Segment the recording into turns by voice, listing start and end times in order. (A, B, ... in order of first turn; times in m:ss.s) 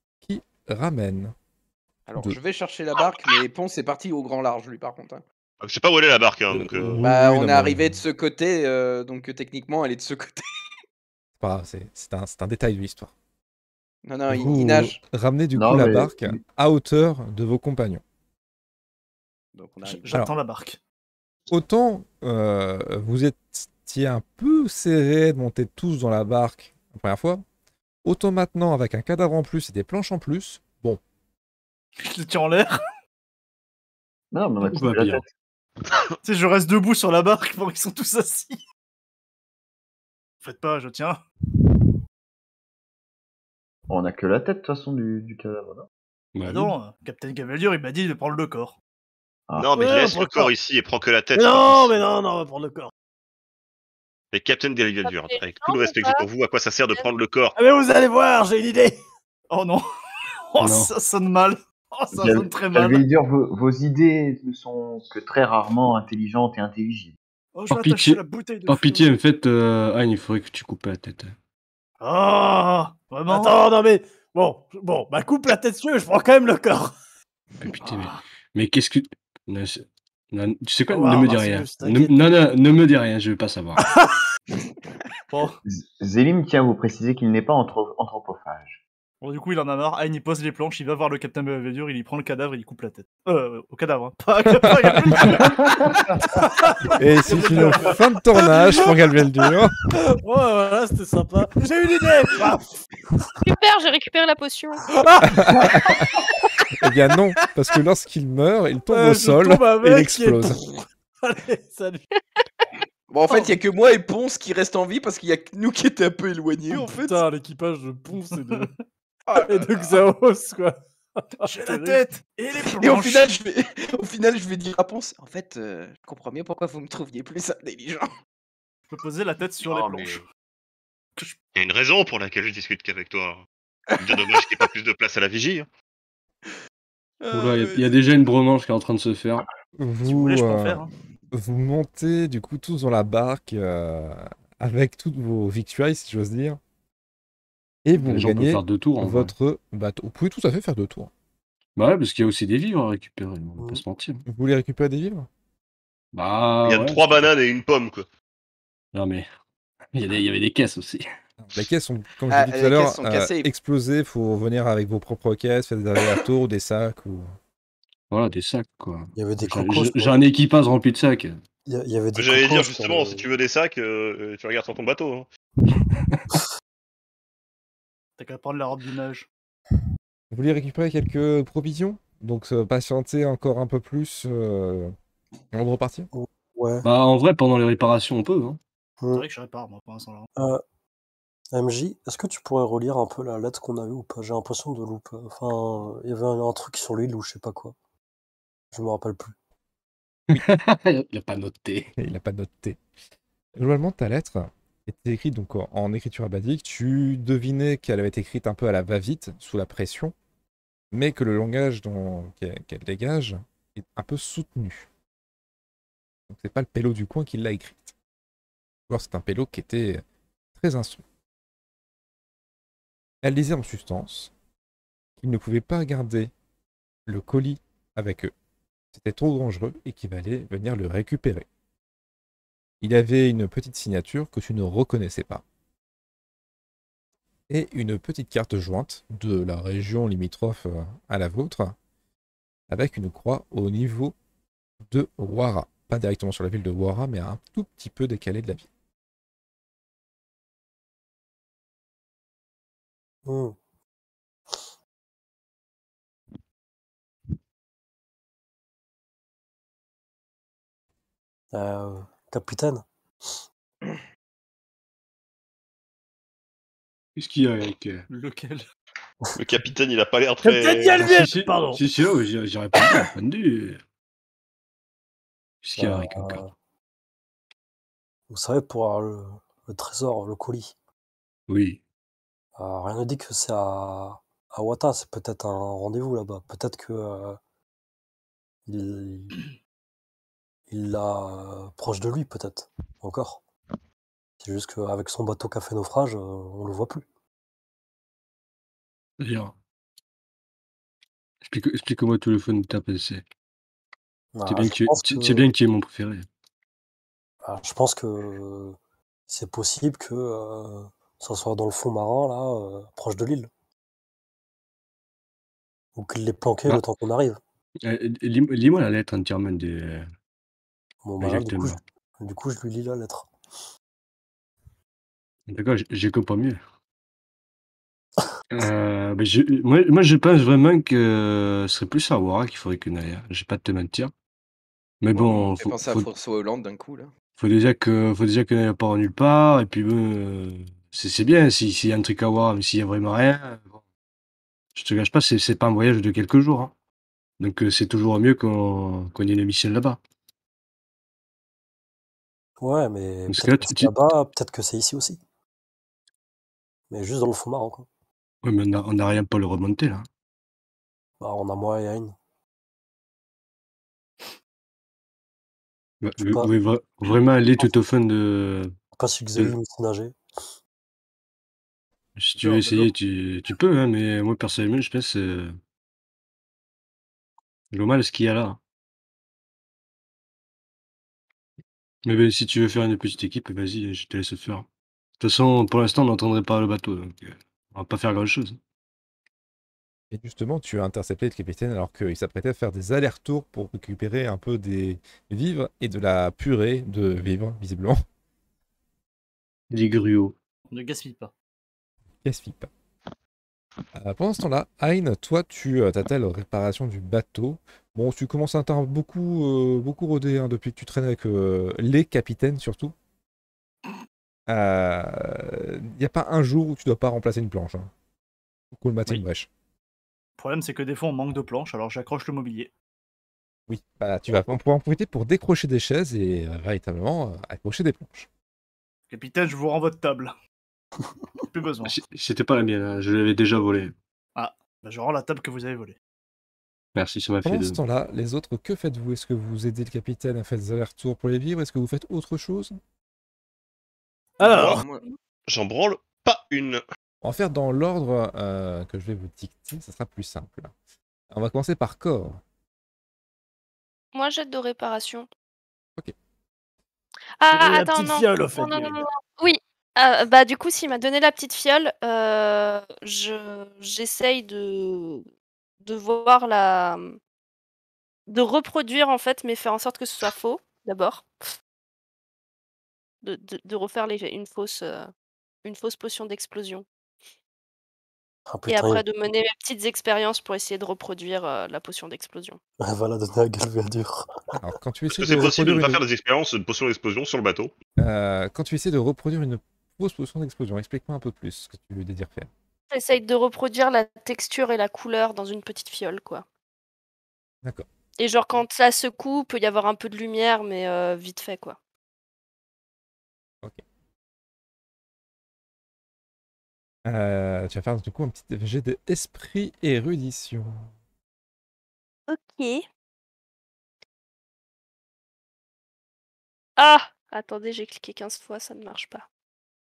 0:00.2-0:01.3 A
0:02.1-0:05.2 B
0:05.6-0:07.0 C
0:06.5-0:08.0 A
0:07.0-0:10.4 B
0:11.4-0:13.1 A
0:14.0-0:15.0 B
0:14.3-0:18.0 A
0:15.6-0:16.4 D
0:19.5-0:20.1 B
0:19.8-0:20.8 E
0:21.5-0:27.4 A
0:28.0-0:31.0 A
0:32.0-0:32.8 E
0:34.3-0:35.2 D
0:34.7-0:35.2 F
0:36.2-0:38.6 E
0:40.4-0:41.2 E
0:43.9-0:45.9 D
0:46.3-0:46.7 F
0:46.4-0:48.8 E
0:49.6-0:52.0 C
0:49.7-0:50.5 G
0:51.3-0:52.9 G
0:54.3-0:57.5 C
0:55.0-0:56.2 H
0:57.6-0:59.0 G
0:59.5-0:59.8 E
1:00.5-1:03.0 E
1:00.6-1:00.9 F
1:02.1-1:07.2 D
1:07.5-1:09.1 E
1:07.7-1:11.3 F
1:12.0-1:13.6 E
1:13.3-1:16.9 G
1:17.6-1:23.8 F
1:17.8-1:18.2 E
1:20.9-1:22.2 G
1:23.8-1:24.1 G
1:25.3-1:25.6 E
1:25.6-1:28.8 D
1:29.2-1:38.1 E
1:34.6-1:35.3 A
1:36.3-1:39.0 G
1:37.0-1:39.8 A
1:39.9-1:42.7 G
1:43.4-1:44.8 H
1:44.9-1:46.0 G
1:45.2-1:46.1 A
1:46.8-1:50.6 A
1:48.9-1:52.0 G
1:53.1-1:57.2 B
1:56.7-1:58.7 G
1:58.3-1:58.7 E
1:59.3-2:00.0 B
1:59.3-2:02.0 G
2:01.4-2:03.3 E
2:02.7-2:08.1 B
2:08.9-2:10.2 E
2:09.7-2:10.2 D
2:11.5-2:13.4 C
2:14.0-2:15.7 C
2:14.1-2:14.6 B
2:17.2-2:17.9 B
2:17.3-2:19.4 F
2:19.8-2:26.6 A
2:20.0-2:20.9 E
2:27.8-2:31.1 A
2:27.9-2:29.3 F
2:31.8-2:34.2 F
2:33.6-2:33.8 I
2:34.2-2:35.3 A
2:36.1-2:37.3 F
2:36.6-2:38.0 C
2:38.9-2:39.3 F
2:39.9-2:41.0 F
2:41.4-2:47.3 A
2:42.3-2:43.5 B
2:48.1-2:51.4 F
2:49.1-2:50.2 I
2:51.7-2:53.2 I
2:52.1-2:55.3 C
2:58.2-2:59.3 E
3:00.3-3:04.9 A
3:05.5-3:06.1 A
3:06.1-3:06.8 I
3:06.8-3:08.6 F
3:09.0-3:09.2 I
3:09.1-3:10.3 E
3:10.4-3:10.6 I
3:11.5-3:17.7 I
3:18.7-3:19.3 I
3:20.3-3:21.9 F
3:22.0-3:22.8 A
3:23.6-3:30.1 A
3:30.9-3:34.9 A
3:36.3-3:37.9 A
3:38.9-3:40.0 A
3:40.6-3:41.0 A
3:43.2-3:44.3 A
3:45.2-3:46.3 A
3:47.1-3:48.3 A
3:48.9-3:51.4 A
3:52.8-3:55.4 A
3:57.5-4:01.8 A
4:02.7-4:04.1 A
4:04.9-4:08.7 A
4:13.2-4:13.6 I
4:21.5-4:22.8 I
4:27.2-4:28.0 F
4:28.1-4:28.6 E
4:29.4-4:30.9 C
4:30.4-4:31.8 G
4:31.0-4:33.8 F
4:35.6-4:36.4 F
4:35.8-4:36.5 I
4:38.3-4:40.7 I
4:41.5-4:41.8 F
4:42.6-4:47.4 I
4:48.7-4:49.4 I
4:50.7-4:53.4 I
4:54.4-4:57.0 I
4:59.2-4:59.5 F
5:01.4-5:03.2 F
5:04.3-5:05.5 I
5:04.4-5:06.2 F
5:07.4-5:08.8 I
5:09.3-5:13.5 I
5:16.0-5:17.4 I
5:17.8-5:20.1 F
5:21.0-5:23.3 I
5:21.2-5:21.8 F
5:25.5-5:26.6 F
5:28.5-5:34.1 F
5:35.0-5:36.1 F
5:35.1-5:37.1 B
5:37.4-5:43.8 F
5:44.7-5:46.7 F
5:47.4-5:50.0 F
5:52.6-5:55.2 I
5:53.3-5:53.9 F
5:56.9-5:57.9 I
5:58.4-6:00.1 F
6:01.2-6:02.2 I
6:06.0-6:08.7 F
6:06.2-6:06.5 I
6:08.9-6:10.2 I
6:12.2-6:15.6 F
6:12.4-6:12.9 E
6:17.7-6:18.6 F
6:22.0-6:24.7 F
6:25.2-6:28.6 F
6:30.1-6:38.0 A
6:39.7-6:40.3 F
6:40.7-6:41.3 E
6:42.2-6:42.7 A
6:43.9-6:52.9 A
6:54.5-6:57.9 A
6:58.7-6:59.5 A
7:00.4-7:02.7 E
7:03.7-7:08.3 A
7:09.1-7:10.3 E
7:11.5-7:11.9 E
7:11.8-7:13.9 F
7:14.4-7:16.0 E
7:16.9-7:17.8 F
7:17.4-7:22.8 A
7:24.4-7:24.8 G
7:24.4-7:24.8 C
7:24.4-7:25.0 B
7:25.5-7:26.8 C
7:27.2-7:30.7 A
7:31.3-7:32.4 A
7:34.1-7:35.3 H
7:37.4-7:45.2 H
7:37.5-7:39.0 G
7:45.8-7:47.2 H
7:48.3-7:51.3 H
7:53.2-7:55.1 H
7:55.6-7:56.8 H
7:58.5-7:59.0 I
7:58.7-8:02.6 H
8:02.8-8:04.6 I
8:04.6-8:06.0 A
8:05.1-8:07.7 C
8:08.0-8:12.5 A
8:12.9-8:16.4 H
8:18.2-8:21.8 H
8:27.0-8:30.9 A
8:32.3-8:32.8 H
8:36.8-8:39.2 H